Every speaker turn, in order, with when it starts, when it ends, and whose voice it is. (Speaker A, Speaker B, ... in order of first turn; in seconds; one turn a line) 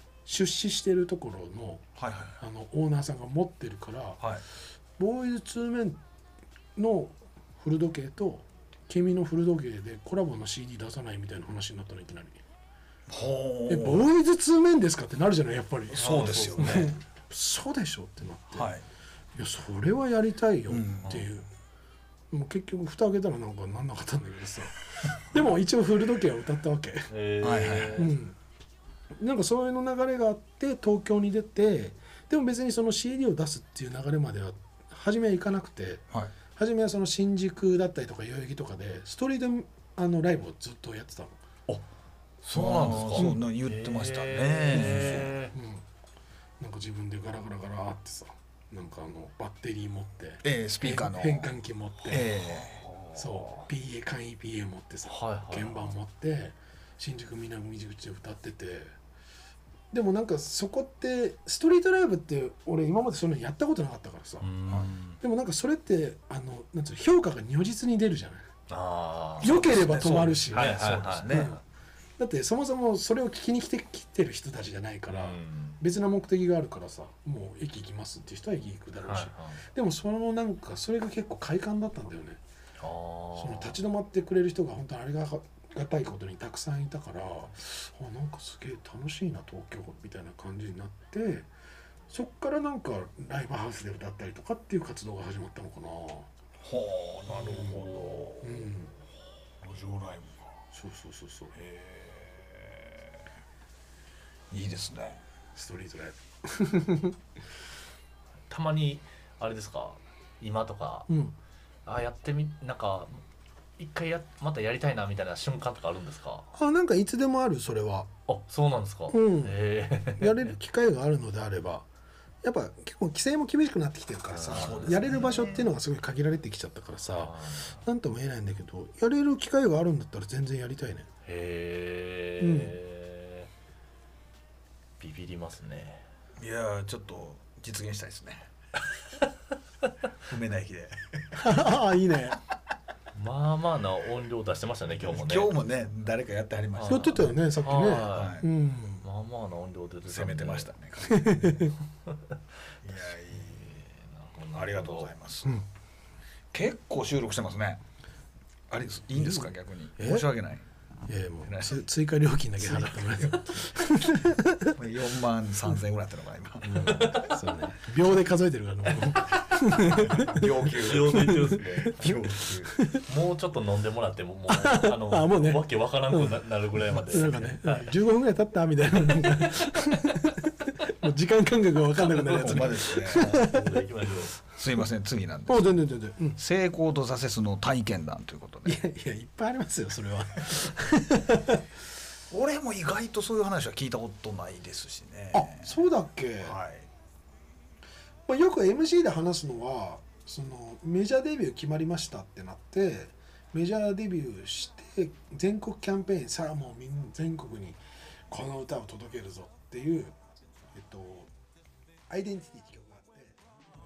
Speaker A: 0.3-1.8
Speaker B: 2.0-2.4
Speaker A: 2.4-4.3
Speaker B: 4.2-4.5
Speaker A: 5.0-6.0
Speaker A: 6.8-12.4
Speaker B: 13.1-14.1
Speaker A: 13.7-18.7
Speaker B: 15.9-16.9
Speaker C: 16.0-17.0
Speaker B: 18.5-18.9
Speaker A: 19.4-21.5
Speaker B: 20.7-21.2
Speaker A: 22.3-27.1
Speaker C: 27.1-28.1
Speaker B: 27.4-28.0
Speaker A: 28.0-28.4
Speaker A: 29.2-41.4
Speaker C: 42.5-45.5
Speaker B: 42.5-45.4
Speaker A: 43.1-43.4
Speaker A: 44.8-45.9
Speaker A: 46.6-52.3
Speaker B: 50.4-51.5
Speaker B: 52.0-52.9
Speaker A: 53.1-58.9
Speaker C: 55.0-55.9
Speaker A: 59.9-64.5
Speaker C: 64.4-65.2
Speaker A: 65.2-68.5
Speaker C: 68.7-71.6
Speaker B: 69.4-71.6
Speaker A: 69.4-71.6
Speaker A: 72.2-82.4
Speaker C: 75.1-75.8
Speaker C: 79.0-79.6
Speaker C: 82.8-83.8
Speaker A: 83.3-91.5
Speaker A: 92.1-96.3
Speaker B: 96.6-98.7
Speaker A: 97.3-98.9
Speaker B: 99.6-100.5
Speaker A: 100.7-101.5
Speaker B: 101.5-103.2
Speaker B: 104.5-105.2
Speaker A: 105.5-107.2
Speaker C: 108.5-111.1
Speaker A: 111.1-111.3
Speaker C: 111.9-113.2
Speaker C: 113.8-116.5
Speaker A: 116.5-118.1
Speaker C: 118.3-120.5
Speaker A: 119.1-121.9
Speaker A: 122.4-131.1
Speaker C: 124.3-125.7
Speaker B: 124.5-125.7
Speaker C: 127.2-127.8
Speaker C: 131.2-133.5
Speaker A: 132.4-132.8
Speaker C: 135.0-136.0
Speaker B: 136.4-138.5
Speaker B: 140.3-141.6
Speaker A: 141.3-142.4
Speaker C: 143.1-145.6
Speaker B: 144.9-147.4
Speaker C: 146.8-148.4
Speaker A: 146.9-149.1
Speaker B: 148.1-148.5
Speaker C: 149.0-150.7
Speaker B: 150.1-151.7
Speaker A: 151.1-151.7
Speaker B: 152.8-153.8
Speaker C: 153.3-155.1
Speaker B: 154.5-155.6
Speaker B: 156.5-157.8
Speaker B: 158.7-160.7
Speaker A: 159.1-160.2
Speaker A: 161.1-164.7
Speaker B: 161.4-161.8
Speaker B: 163.0-163.4
Speaker B: 164.8-167.2
Speaker A: 166.6-170.4
Speaker C: 166.8-167.3
Speaker B: 170.0-172.8
Speaker C: 170.7-172.0
Speaker A: 171.2-173.1
Speaker C: 173.1-177.9
Speaker A: 174.5-183.7
Speaker C: 179.1-179.7
Speaker C: 182.0-184.4
Speaker B: 182.3-183.5
Speaker B: 184.5-185.7
Speaker A: 185.5-186.4
Speaker B: 186.4-188.8
Speaker A: 188.7-191.6
Speaker B: 192.3-195.8
Speaker A: 195.3-196.6
Speaker B: 196.4-196.9
Speaker A: 198.3-210.2
Speaker A: 210.7-211.3
Speaker A: 212.1-213.4